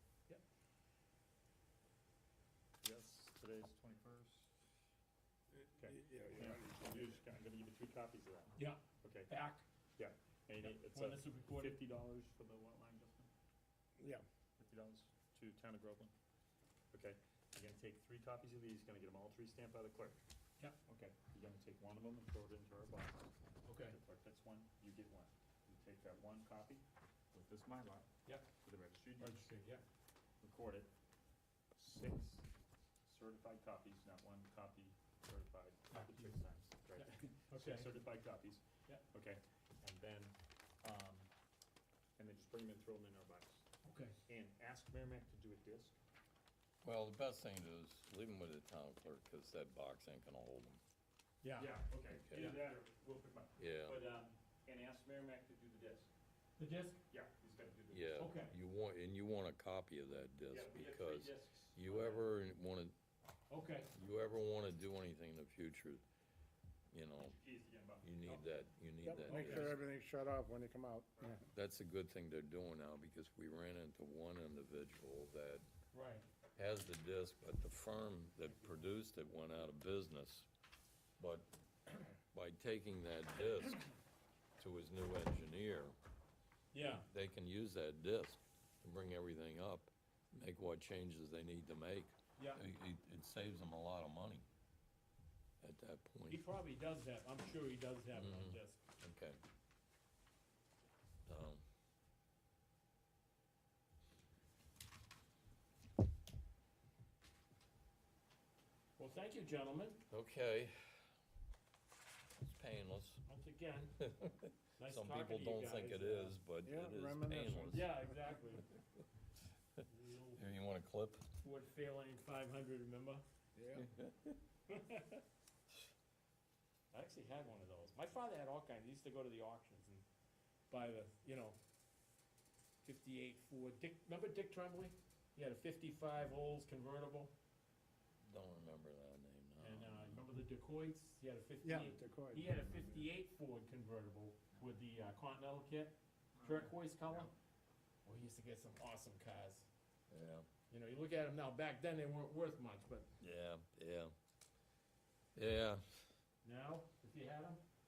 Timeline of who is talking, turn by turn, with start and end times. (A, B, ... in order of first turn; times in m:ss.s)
0:02.8-0:04.5 A
0:05.5-0:07.2 B
0:05.8-0:09.3 A
0:08.6-0:09.6 C
0:10.0-0:13.3 A
0:10.6-0:11.8 C
0:14.0-0:14.2 B
0:14.6-0:16.1 A
0:16.9-0:20.2 A
0:20.9-0:23.3 A
0:23.7-0:24.0 C
0:23.9-0:28.1 A
0:28.6-0:29.5 A
0:29.2-0:29.8 C
0:30.4-0:30.9 A
0:31.8-0:32.5 A
0:33.0-0:41.3 A
0:35.9-0:36.3 C
0:37.0-0:37.9 C
0:42.2-0:43.7 A
0:43.8-0:44.2 C
0:44.3-0:46.0 A
0:46.8-0:50.8 D
0:51.4-0:51.8 C
0:51.6-0:56.1 A
0:52.2-0:52.4 D
0:53.6-0:54.0 D
0:56.6-0:57.0 C
0:57.1-0:58.2 A
0:57.9-1:03.0 D
0:58.2-0:58.5 C
1:00.5-1:02.2 A
1:03.5-1:03.9 C
1:04.0-1:06.0 D
1:06.9-1:07.4 D
1:07.2-1:08.1 A
1:08.0-1:09.8 D
1:09.0-1:11.4 B
1:09.3-1:09.8 C
1:11.5-1:15.7 D
1:15.9-1:16.3 C
1:16.6-1:20.5 D
1:21.2-1:23.8 D
1:24.6-1:26.0 D
1:26.7-1:27.1 C
1:26.8-1:34.4 D
1:32.4-1:32.6 C
1:35.6-1:36.4 D
1:36.3-1:38.8 C
1:38.1-1:39.4 D
1:41.3-1:41.6 D
1:49.0-1:50.0 C
1:50.1-1:50.8 D
1:52.4-1:53.2 D
1:53.3-1:54.1 C
1:54.1-1:58.1 D
1:54.8-1:56.3 C
1:56.6-1:58.6 B
1:57.7-1:58.8 C
1:59.8-2:00.4 C
2:00.3-2:01.2 D
2:01.4-2:03.2 C
2:03.6-2:03.9 B
2:03.8-2:04.4 D
2:04.7-2:05.2 C
2:06.9-2:10.0 C
2:10.7-2:11.6 C
2:12.8-2:17.3 C
2:18.2-2:20.3 D
2:19.6-2:27.3 C
2:21.6-2:23.1 B
2:26.4-2:26.7 A
2:28.0-2:29.7 C
2:30.1-2:30.5 D
2:30.7-2:33.1 C
2:33.2-2:34.1 D
2:35.4-2:36.1 D
2:36.4-2:37.6 C